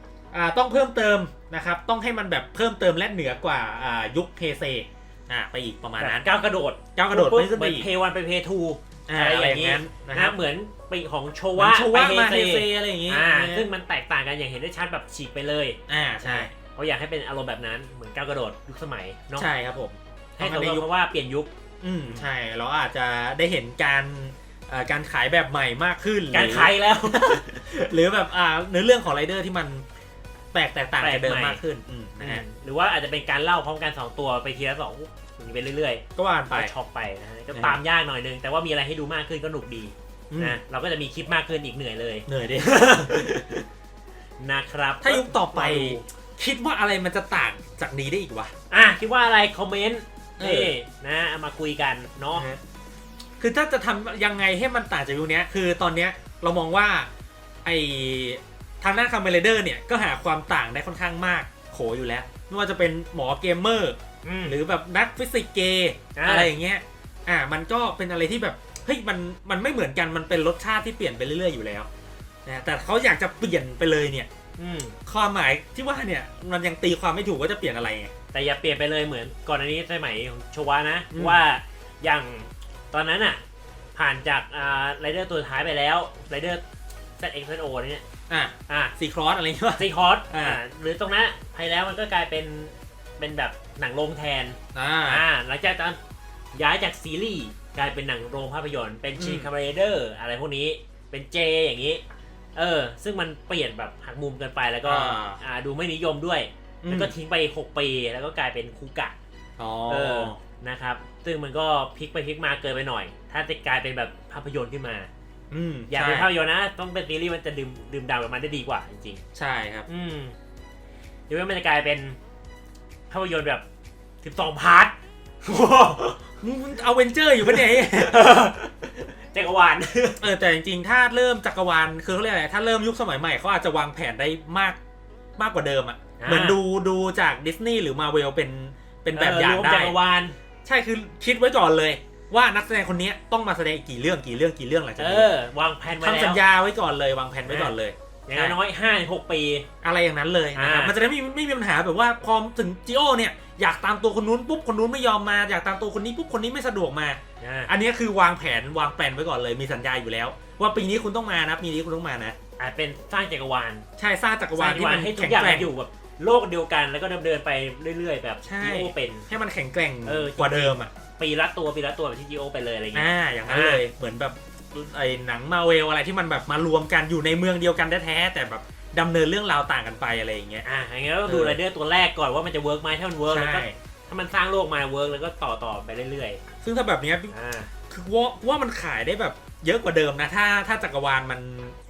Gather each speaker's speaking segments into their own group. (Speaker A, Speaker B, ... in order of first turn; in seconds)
Speaker A: 0.3-6.2, 6.9-7.9, 9.1-10.4, 11.6-13.7, 15.9-16.5, 19.4-20.9, 21.8-29.9, 30.5-32.4, 36.2-36.7, 37.5-37.8, 40.3-40.6, 42.3-43.5, 45.0-48.5, 50.4-50.7, 52.3-52.6, 53.4-57.1, 57.6-71.9, 72.5-74.3, 75.1-78.1, 81.1-81.4, 88.3-90.6, 94.7-95.2, 99.2-99.5, 104.8-105.4, 106.8-107.1, 109.6-110.4, 115.5-116.3, 119.3-119.9, 126.4-128.2, 130.2-134.8, 135.4-139.9, 140.7-145.3, 146.0-148.6, 149.8-162.3, 164.0-165.7, 168.4-170.9, 172.9-180.7, 181.3-181.6, 183.3-183.8, 186.6-187.3, 187.9-191.8
Speaker B: 6.0-19.5, 20.4-21.5, 26.3-27.4, 31.0-31.6, 32.2-43.6, 44.4-46.0, 48.7-52.5, 64.2-64.6, 66.2-66.5, 74.6-75.0, 78.3-83.4, 83.9-86.6, 87.2-88.0, 88.7-88.9, 89.8-96.0, 96.5-102.0, 102.6-109.2, 109.9-115.1, 115.9-119.2, 119.9-120.3, 121.3-122.2, 123.1-123.6, 124.2-126.2, 127.4-130.2, 136.2-136.6, 139.1-140.3, 145.0-146.4, 147.5-147.8, 148.3-149.7, 150.6-150.9, 157.4-157.7, 162.6-163.8, 164.6-169.3, 170.1-173.8, 180.6-186.4, 187.3-187.7